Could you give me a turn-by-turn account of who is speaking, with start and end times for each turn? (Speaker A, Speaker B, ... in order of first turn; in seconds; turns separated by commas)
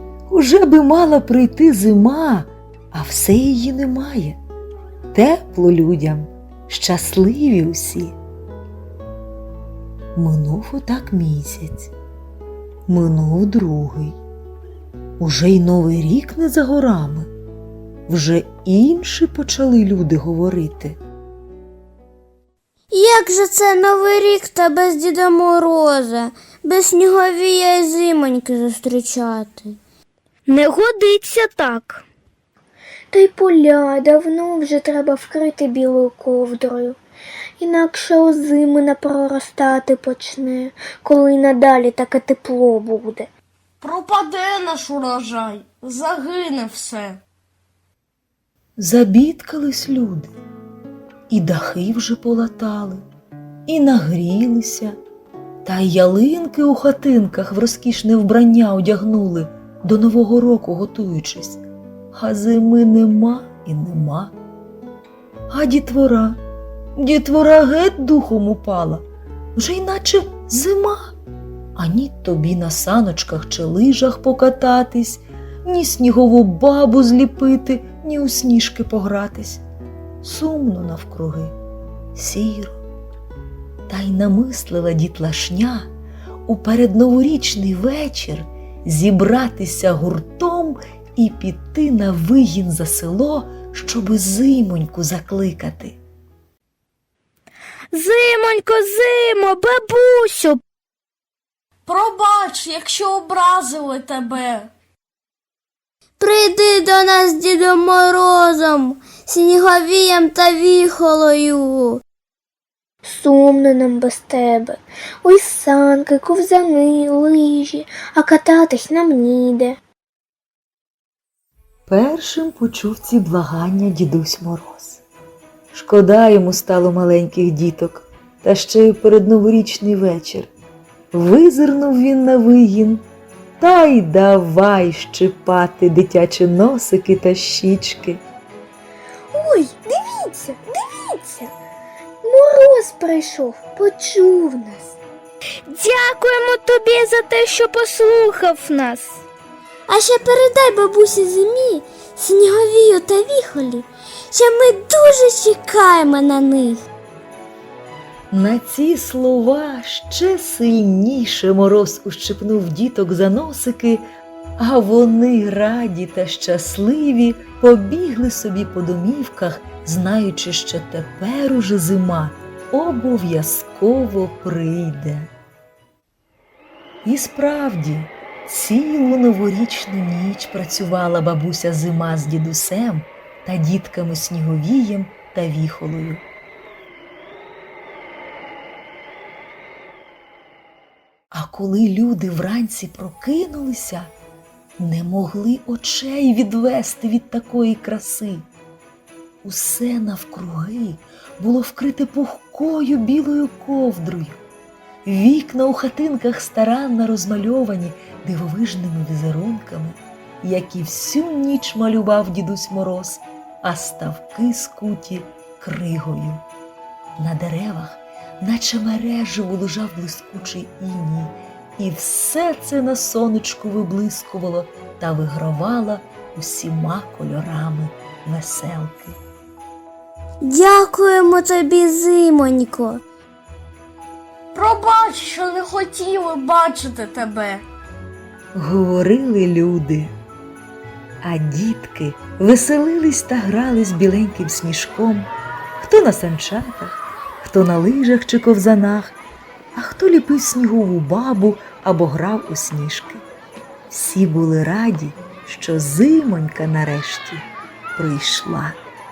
Speaker A: 0.3-4.4, Speaker A: 5.1-8.2, Speaker A: 10.1-11.9, Speaker A: 12.9-14.2, Speaker A: 15.2-17.3, Speaker A: 18.1-21.0, Speaker B: 22.9-29.8, Speaker C: 30.5-32.0, Speaker D: 33.1-37.0, Speaker D: 37.6-43.3, Speaker E: 43.8-47.2, Speaker A: 48.8-50.3, Speaker A: 51.3-53.0, Speaker A: 53.7-55.0, Speaker A: 55.6-64.3, Speaker A: 65.5-66.4, Speaker A: 67.0-69.0, Speaker A: 69.5-71.1, Speaker A: 71.8-79.6, Speaker A: 80.2-81.5, Speaker A: 82.2-82.8, Speaker A: 83.9-85.9, Speaker A: 86.5-96.0, Speaker C: 97.9-100.6, Speaker E: 101.8-104.7, Speaker B: 106.2-112.0, Speaker D: 113.0-119.8, Speaker A: 121.9-125.0, Speaker A: 125.7-130.5, Speaker A: 131.1-133.0, Speaker A: 133.6-138.2, Speaker D: 139.3-141.5, Speaker D: 142.2-145.0, Speaker C: 145.7-149.2, Speaker B: 149.9-156.8, Speaker A: 158.3-164.0, Speaker A: 164.6-175.3, Speaker A: 177.0-186.2, Speaker A: 191.3-194.1, Speaker A: 194.8-198.5, Speaker A: 199.4-204.4, Speaker A: 205.0-216.4, Speaker A: 217.2-229.2, Speaker B: 230.4-233.0, Speaker E: 234.5-237.6, Speaker A: 238.5-240.1, Speaker A: 241.2-249.2, Speaker A: 249.8-253.2, Speaker A: 253.9-258.8